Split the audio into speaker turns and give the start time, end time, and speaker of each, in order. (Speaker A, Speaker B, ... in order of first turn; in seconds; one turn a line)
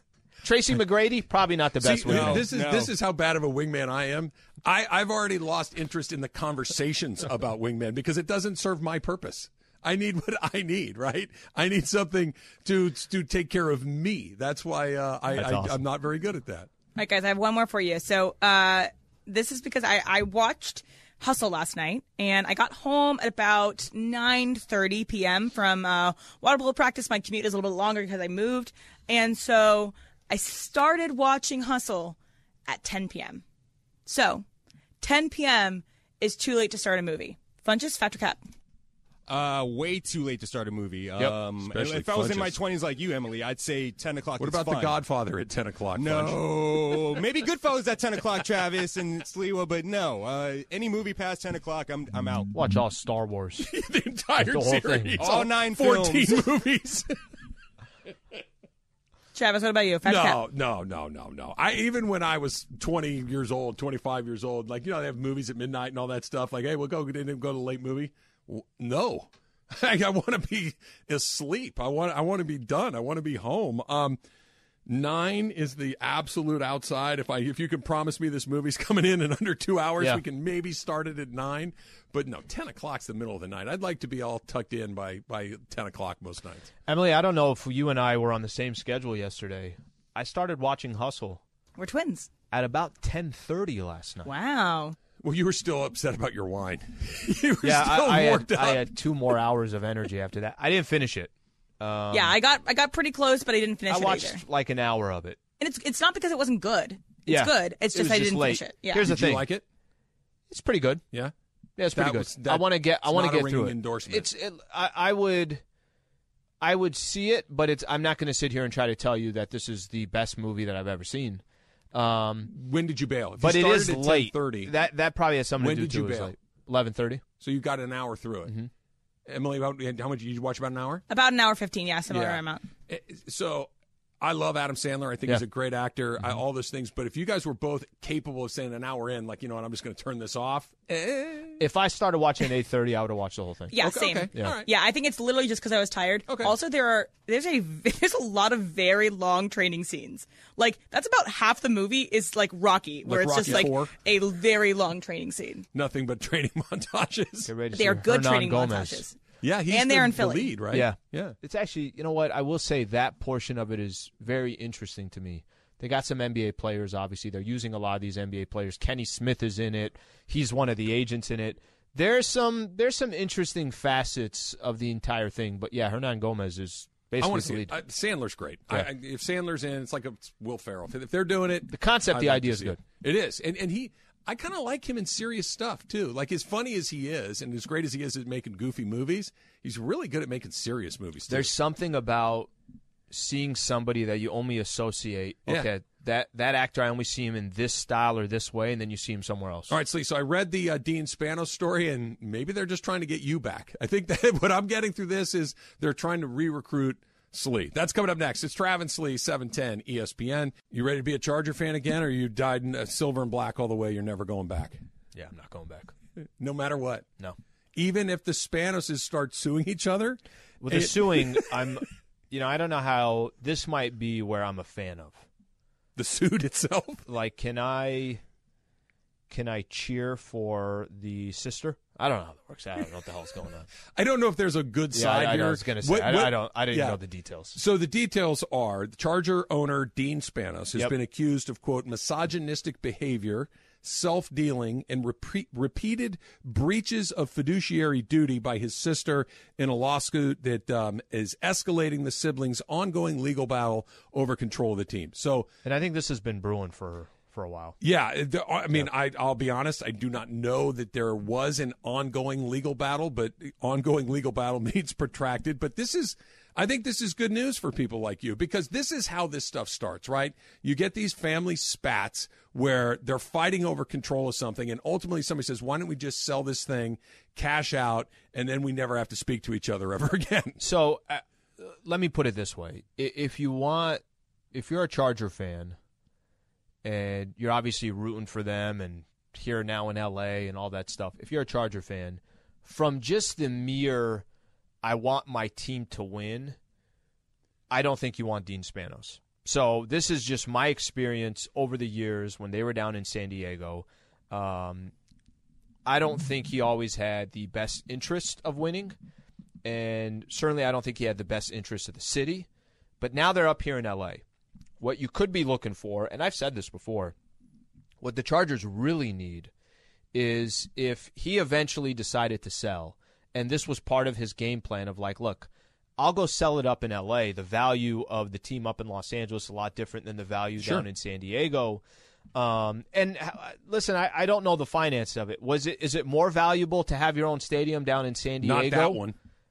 Speaker A: 0.4-2.5
Speaker B: 1.8-16.7
Speaker C: 2.1-2.9
Speaker A: 15.3-15.8
Speaker D: 16.9-33.4
Speaker D: 34.0-34.5
Speaker D: 35.0-38.4
Speaker C: 39.3-45.0
Speaker B: 41.2-42.6
Speaker B: 44.4-47.2
Speaker C: 46.0-52.5
Speaker A: 52.5-53.7
Speaker B: 53.6-57.1
Speaker A: 54.4-55.3
Speaker C: 55.2-56.5
Speaker D: 59.3-60.4
Speaker B: 60.0-74.2
Speaker B: 74.9-86.7
Speaker A: 86.9-91.4
Speaker D: 91.8-92.3
Speaker A: 92.5-94.3
Speaker D: 94.2-95.0
Speaker B: 95.2-98.9
Speaker A: 97.6-102.3
Speaker D: 102.1-104.4
Speaker A: 103.9-105.4
Speaker D: 105.6-109.0
Speaker A: 107.2-109.5
Speaker B: 109.0-109.6
Speaker A: 110.5-111.0
Speaker A: 111.8-115.6
Speaker B: 111.9-114.3
Speaker A: 116.6-121.4
Speaker A: 121.9-122.5
Speaker B: 122.5-124.7
Speaker A: 123.4-127.2
Speaker B: 125.6-126.3
Speaker B: 127.4-128.5
Speaker B: 129.3-131.0
Speaker D: 131.1-132.7
Speaker B: 132.1-133.7
Speaker B: 134.2-141.6
Speaker A: 141.6-143.8
Speaker D: 143.7-155.7
Speaker B: 143.8-144.7
Speaker B: 146.3-146.5
Speaker B: 153.0-153.9
Speaker B: 155.7-157.5
Speaker A: 157.5-159.0
Speaker D: 157.8-159.2
Speaker B: 159.4-161.3
Speaker D: 159.7-160.5
Speaker A: 160.7-177.7
Speaker B: 177.2-191.5
Speaker A: 181.7-182.8
Speaker A: 191.3-192.5
Speaker A: 193.1-199.7
Speaker B: 199.7-214.8
Speaker A: 215.1-215.9
Speaker B: 216.4-217.1
Speaker B: 217.7-221.5
Speaker A: 220.6-225.2
Speaker B: 225.9-227.0
Speaker A: 227.1-228.2
Speaker A: 229.3-233.7
Speaker B: 233.9-237.0
Speaker A: 234.9-237.6
Speaker B: 237.5-255.5
Speaker A: 255.6-257.8
Speaker B: 257.8-280.6
Speaker A: 280.6-284.0
Speaker A: 284.5-285.8
Speaker A: 286.8-294.2
Speaker A: 294.8-296.6
Speaker A: 297.7-304.9
Speaker A: 305.9-308.9
Speaker A: 309.6-312.5
Speaker A: 313.0-314.2
Speaker A: 314.8-317.1
Speaker A: 318.0-319.5
Speaker A: 320.1-331.8
Speaker B: 330.6-330.9
Speaker A: 332.3-339.0
Speaker B: 338.4-339.1